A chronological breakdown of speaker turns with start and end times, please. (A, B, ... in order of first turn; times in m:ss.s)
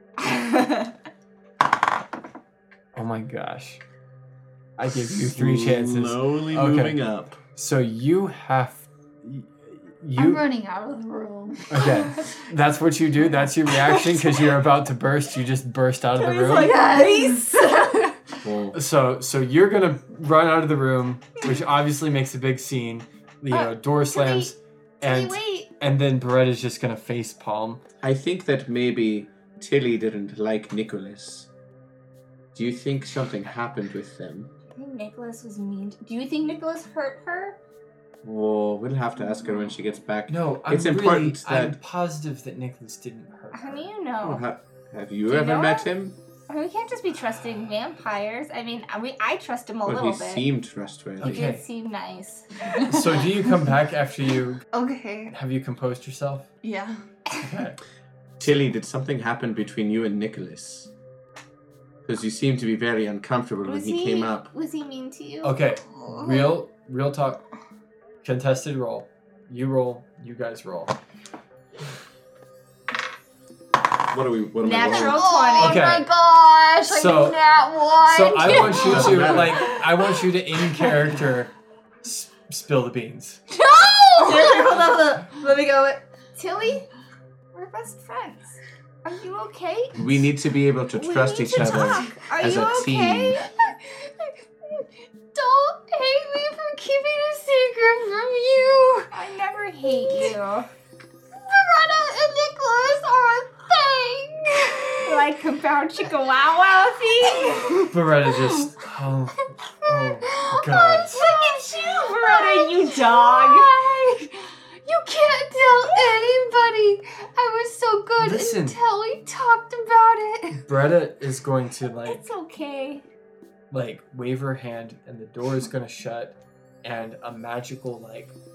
0:00.2-0:00.9 A
0:02.9-0:03.8 B
0:04.8-0:07.0 B
0:05.1-0:07.4 C
0:07.5-0:10.4 B
0:10.2-0:12.4 D
0:11.7-0:16.8 B
0:13.8-0:14.5 D
0:16.2-0:17.5 A
0:16.4-0:18.2 D
0:18.4-0:18.8 C
0:18.7-0:27.8 B
0:23.5-0:25.7 A
0:28.0-0:31.5 C
0:32.5-0:34.5 C
0:34.7-0:37.6 A
0:38.2-0:41.8 C
0:40.3-0:43.9 B
0:43.5-0:44.4 A
0:44.2-0:46.2 C
0:45.3-0:45.9 A
0:46.5-0:50.4 A
0:49.9-0:51.5 C
0:51.2-0:51.6 B
0:51.2-0:53.0 A
0:52.7-0:53.2 D
0:52.8-0:54.6 B
0:54.7-0:55.3 D
0:55.3-0:56.5 B
0:56.6-0:57.0 D
0:57.4-0:57.8 B
0:58.4-1:00.9 C
1:02.1-1:04.5 C
1:03.7-1:06.3 A
1:05.4-1:07.4 B
1:08.2-1:11.0 B
1:14.1-1:15.3 C
1:14.6-1:16.0 A
1:14.9-1:20.2 D
1:15.6-1:16.1 B
1:16.9-1:17.4 B
1:18.0-1:21.5 B
1:18.7-1:19.6 C
1:22.0-1:23.4 B
1:23.5-1:24.8 D
1:24.2-1:26.9 A
1:27.5-1:30.0 A
1:30.0-1:33.4 C
1:31.0-1:33.6 A
1:33.6-1:39.1 D
1:39.1-1:40.7 A
1:39.8-1:40.4 D
1:41.3-1:45.3 D
1:45.0-1:47.9 A
1:47.3-1:47.9 D
1:47.9-1:51.3 B
1:50.2-2:00.7 D
1:51.1-1:53.7 A
1:55.8-1:56.3 A
1:58.2-1:58.8 B
2:00.6-2:02.2 B
2:02.0-2:03.0 A
2:03.7-2:08.4 B